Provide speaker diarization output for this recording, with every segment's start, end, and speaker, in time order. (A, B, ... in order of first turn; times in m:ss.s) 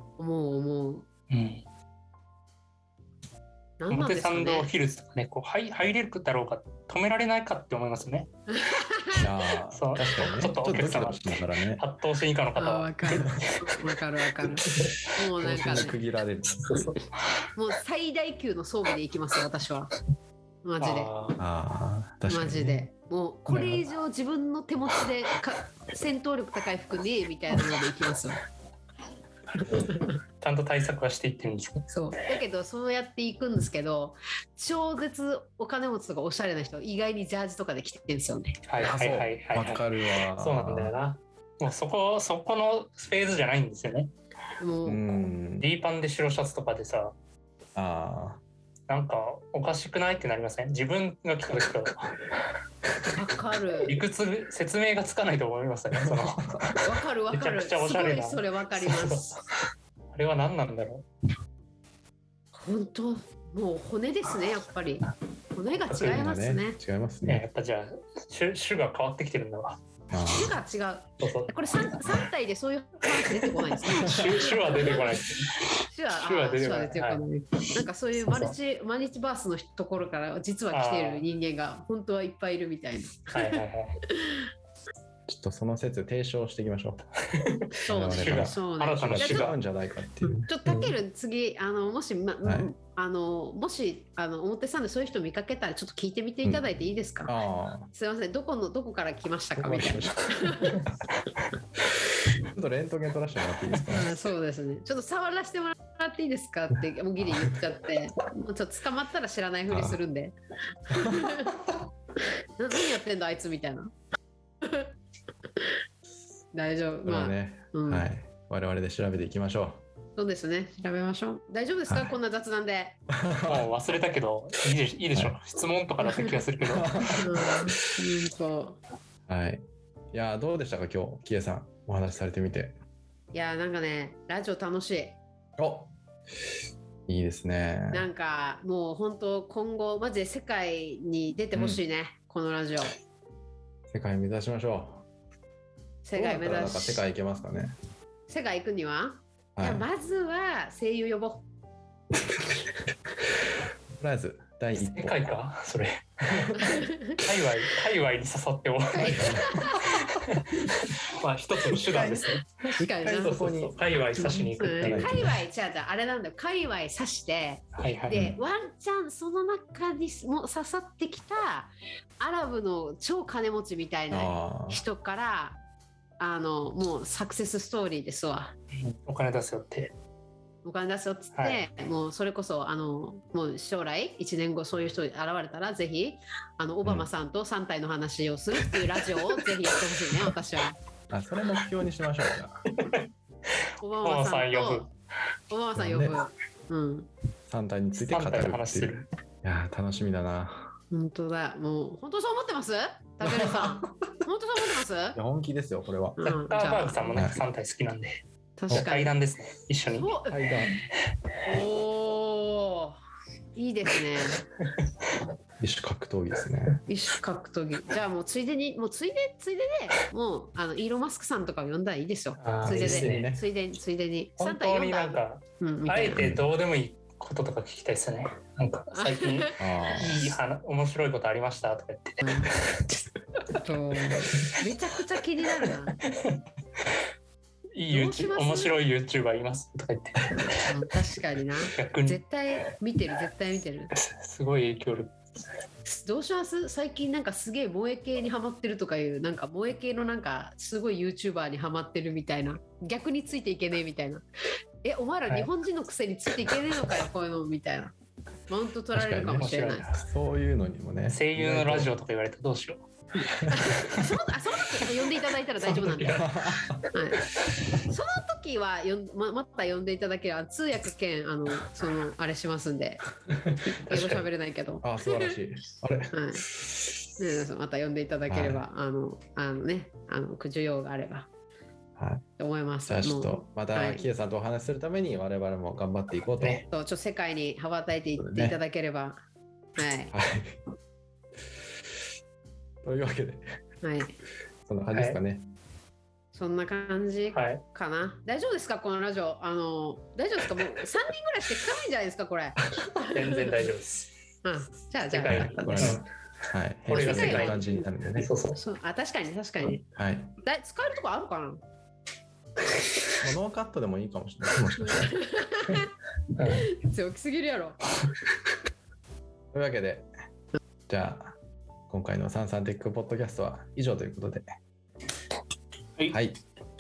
0:00.2-0:01.1 A
0:01.3-0:01.6 B
0:03.8-0:04.7 A
0:03.9-0:08.3 B
0:08.5-0:09.3 A
0:09.1-0:11.8 C
0:09.7-0:13.8 B
0:12.6-0:16.0 A
0:14.4-0:16.0 B
0:15.4-0:16.9 C
0:16.6-0:17.1 B
0:17.6-0:19.9 A
0:20.6-0:21.1 A
0:20.8-0:21.4 B
0:21.4-0:22.9 C
0:22.3-0:28.4 A
0:23.5-0:23.9 B
0:29.6-0:31.9 B
0:29.6-0:30.2 A
0:31.9-0:38.6 A
0:38.7-0:44.1 B
0:38.8-0:41.0 C
0:44.6-0:45.3 A
0:44.9-0:45.7 C
0:45.6-0:47.2 B
0:47.8-0:48.4 C
0:48.9-0:52.3 B
0:53.0-0:54.0 A
0:53.8-0:56.7 B
0:56.0-0:56.8 C
0:56.8-0:59.4 A
0:57.3-0:59.4 B
1:00.1-1:01.1 B
1:02.5-1:06.8 A
1:05.9-1:06.3 B
1:06.0-1:07.4 C
1:07.2-1:09.8 B
1:10.1-1:10.6 C
1:10.3-1:15.1 A
1:11.2-1:12.3 B
1:13.1-1:17.2 B
1:14.0-1:14.5 C
1:15.9-1:23.6 A
1:18.2-1:18.6 B
1:20.7-1:21.3 B
1:23.3-1:24.0 B
1:24.1-1:24.4 A
1:25.3-1:27.0 C
1:27.3-1:29.6 B
1:27.8-1:29.6 A
1:27.9-1:30.9 C
1:30.5-1:37.3 A
1:32.4-1:32.7 C
1:37.3-1:37.9 C
1:37.9-1:40.8 A
1:39.6-1:40.8 C
1:42.5-1:44.1 C
1:43.9-1:50.4 A
1:49.7-1:50.0 C
1:50.9-1:51.5 A
1:51.0-1:51.7 C
1:52.6-1:53.9 A
1:54.6-1:54.9 A
1:56.5-1:58.1 A
1:57.0-1:59.8 C
2:00.2-2:03.0 A
2:01.9-2:02.2 C
2:03.1-2:03.7 C
2:03.4-2:06.9 B
2:06.0-2:06.4 A
2:06.6-2:07.6 C
2:07.2-2:08.8 A
2:09.3-2:12.8 C
2:13.3-2:15.2 A
2:15.6-2:15.9 C
2:17.1-2:18.1 C
2:17.9-2:23.0 A
2:21.5-2:21.8 C
2:23.9-2:25.0 C
2:26.0-2:27.0 A
2:26.2-2:27.8 C
2:28.3-2:31.5 A
2:29.6-2:29.9 C
2:34.0-2:35.2 C
2:34.8-2:42.4 B
2:36.3-2:36.6 C
2:36.6-2:37.2 A
2:38.9-2:40.7 A
2:39.2-2:39.6 C
2:41.8-2:45.4 C
2:42.8-2:43.4 A
2:43.0-2:45.3 B
2:44.2-2:55.6 A
2:47.8-2:48.2 B
2:48.1-2:48.4 C
2:54.1-2:54.8 C
2:56.2-2:58.5 A
2:58.8-2:59.9 B
3:00.6-3:10.8 A
3:01.4-3:01.6 B
3:11.1-3:12.7 C
3:12.8-3:13.0 B
3:13.8-3:14.9 A
3:14.0-3:14.9 B
3:15.5-3:17.1 A
3:15.8-3:16.2 C
3:17.5-3:20.7 C
3:18.0-3:19.1 B
3:20.9-3:25.2 A
3:23.2-3:24.0 C
3:25.2-3:26.3 C
3:26.2-3:27.2 A
3:26.3-3:30.1 B
3:27.1-3:27.4 C
3:28.6-3:29.2 A
3:29.9-3:30.6 A
3:30.3-3:30.8 C
3:31.4-3:33.0 A
3:33.6-3:34.4 A
3:34.6-3:34.9 B
3:35.6-3:36.8 C
3:36.9-3:46.2 A
3:42.4-3:43.3 B
3:42.6-3:43.5 C
3:44.4-3:52.9 B
3:46.2-3:46.5 C
3:49.0-3:50.3 A
3:49.6-3:50.2 C
3:52.2-3:52.5 A
3:53.5-3:56.0 A
3:56.1-3:56.4 B
3:57.8-4:00.5 B
3:57.9-3:58.7 A
4:00.6-4:03.9 A
4:01.7-4:02.2 B
4:03.9-4:05.2 B
4:05.9-4:14.2 A
4:14.8-4:17.9 A
4:18.5-4:19.9 A
4:18.9-4:19.5 C
4:19.4-4:20.1 B
4:20.0-4:21.9 C
4:21.1-4:24.0 B
4:23.5-4:26.3 A
4:25.6-4:26.8 B
4:26.1-4:26.8 C
4:26.9-4:27.3 A
4:27.9-4:33.0 A
4:33.8-4:35.4 A
4:33.9-4:34.3 B
4:34.8-4:36.7 C
4:36.1-4:36.4 A
4:37.2-4:41.3 A
4:38.3-4:38.6 C
4:42.0-4:42.2 C
4:42.4-4:44.1 A
4:42.9-4:46.6 C
4:46.4-4:46.7 B
4:46.7-4:49.2 A
4:48.2-4:48.6 C
4:49.8-4:50.1 A
4:50.1-4:50.6 C
4:52.8-4:53.5 C
4:53.8-4:54.2 A
4:54.7-4:55.5 C
4:54.9-4:55.2 B
4:56.3-5:03.6 A
4:57.3-4:57.6 B
5:03.0-5:04.1 B
5:04.4-5:06.0 A
5:05.1-5:06.0 B
5:05.3-5:08.3 C
5:06.9-5:08.6 B
5:06.9-5:07.8 A
5:08.5-5:09.8 A
5:10.0-5:10.4 C
5:10.4-5:11.6 A
5:13.2-5:15.3 C
5:14.9-5:15.9 A
5:16.4-5:16.7 B
5:16.4-5:17.8 A
5:19.5-5:20.1 C
5:20.9-5:21.4 C
5:21.9-5:24.4 C
5:26.1-5:26.4 C